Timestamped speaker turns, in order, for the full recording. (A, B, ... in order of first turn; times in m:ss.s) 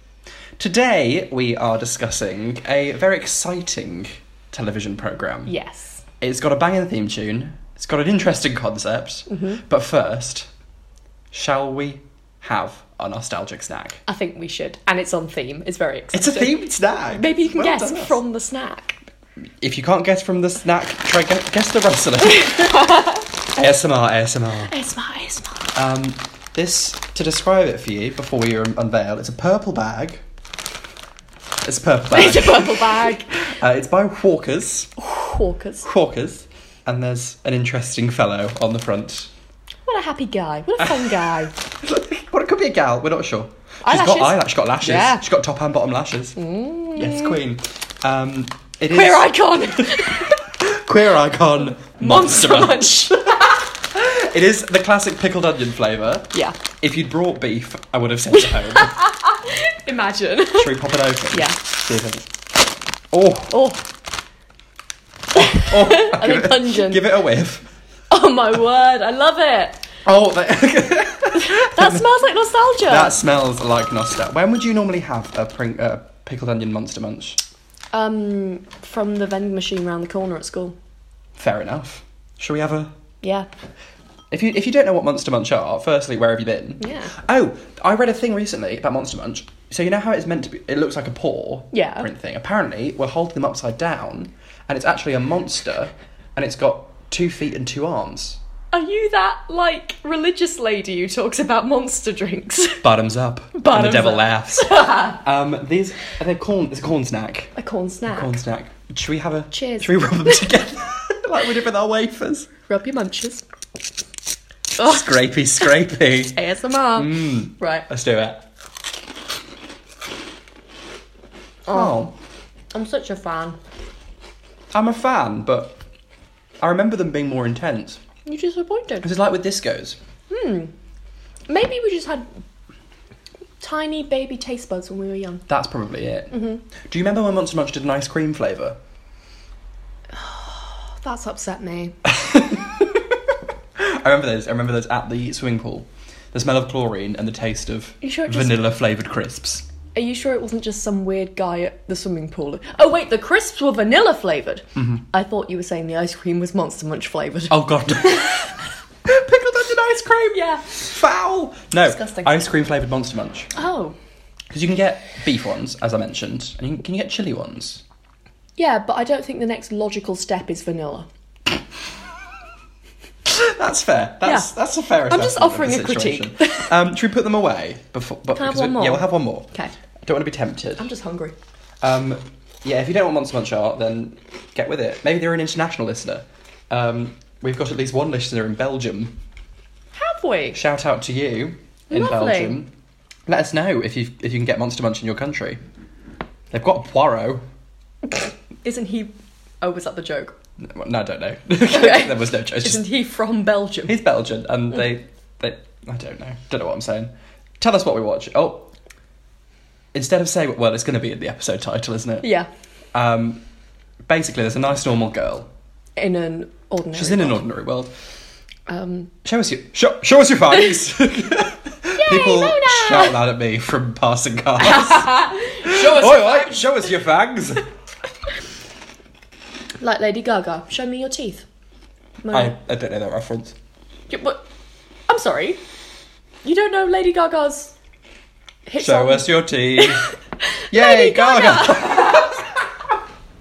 0:00.6-0:05.5 A
0:05.5-0:06.0 B
0:06.2-0:10.5 A
0:09.3-0:09.6 B
0:11.3-0:14.0 A
0:14.1-0:16.6 B
0:16.1-0:18.2 A
0:17.1-0:19.0 B
0:19.6-0:24.7 A
0:22.2-0:23.3 B
0:24.7-0:25.8 B
0:25.8-0:30.2 A
0:31.6-0:34.9 A
0:32.1-0:33.3 B
0:35.0-0:35.9 B
0:35.8-0:39.3 A
0:39.9-0:41.5 B
0:40.8-0:46.4 A
0:43.8-0:45.2 B
0:46.4-0:47.4 B
0:47.0-0:59.1 A
0:48.9-0:50.4 B
0:52.0-0:53.6 B
0:56.3-0:56.6 B
0:58.4-1:01.6 B
1:00.5-1:02.3 A
1:03.1-1:03.6 A
1:03.5-1:03.8 B
1:05.4-1:07.1 B
1:05.4-1:07.7 A
1:08.1-1:09.8 B
1:10.0-1:12.0 A
1:11.3-1:13.2 B
1:12.9-1:17.4 A
1:17.9-1:20.8 B
1:21.4-1:22.9 A
1:23.2-1:23.5 B
1:24.3-1:38.4 A
1:26.8-1:27.1 B
1:31.7-1:32.1 B
1:38.7-1:42.8 B
1:42.8-1:47.6 A
1:43.6-1:45.2 B
1:47.6-1:48.4 B
1:48.1-1:52.5 A
1:49.5-1:50.5 B
1:52.7-1:53.4 B
1:54.8-1:56.4 A
1:54.8-1:55.0 B
1:56.3-1:57.9 B
1:56.9-1:58.4 A
2:01.7-2:02.0 B
2:01.7-2:02.1 A
2:02.7-2:03.6 B
2:04.7-2:05.8 A
2:06.6-2:08.0 A
2:08.2-2:09.1 B
2:09.0-2:10.0 A
2:10.3-2:10.7 B
2:11.5-2:12.3 B
2:13.6-2:15.4 B
2:15.5-2:18.8 A
2:16.3-2:16.6 B
2:20.1-2:22.0 B
2:22.0-2:23.2 A
2:23.8-2:29.7 A
2:28.0-2:28.6 B
2:29.9-2:38.5 B
2:34.8-2:35.0 A
2:37.5-2:43.5 A
2:40.3-2:40.8 B
2:41.9-2:42.3 B
2:43.6-2:44.0 B
2:44.5-2:47.8 A
2:48.6-2:51.1 B
2:53.3-2:59.5 A
2:54.2-2:54.5 B
2:55.1-2:56.7 B
2:58.4-2:59.7 B
3:00.1-3:00.9 A
3:00.8-3:01.4 B
3:01.8-3:09.2 A
3:10.0-3:10.6 B
3:10.5-3:12.7 A
3:11.9-3:12.6 B
3:13.3-3:15.6 A
3:16.5-3:17.4 A
3:18.1-3:20.4 B
3:20.6-3:22.8 A
3:21.7-3:24.0 B
3:23.9-3:28.7 A
3:29.9-3:32.3 A
3:32.2-3:32.5 B
3:32.9-3:33.4 A
3:34.1-3:35.5 A
3:36.0-3:37.4 B
3:36.9-3:37.9 A
3:38.7-3:39.1 B
3:39.2-3:47.7 A
3:42.0-3:43.2 B
3:44.6-3:46.6 B
3:49.8-3:51.4 B
3:52.2-3:52.5 B
3:52.3-3:53.6 A
3:54.1-3:54.4 B
3:55.1-3:55.6 B
3:56.4-3:57.7 B
3:58.7-4:02.4 B
3:58.8-4:00.1 A
4:00.7-4:02.6 A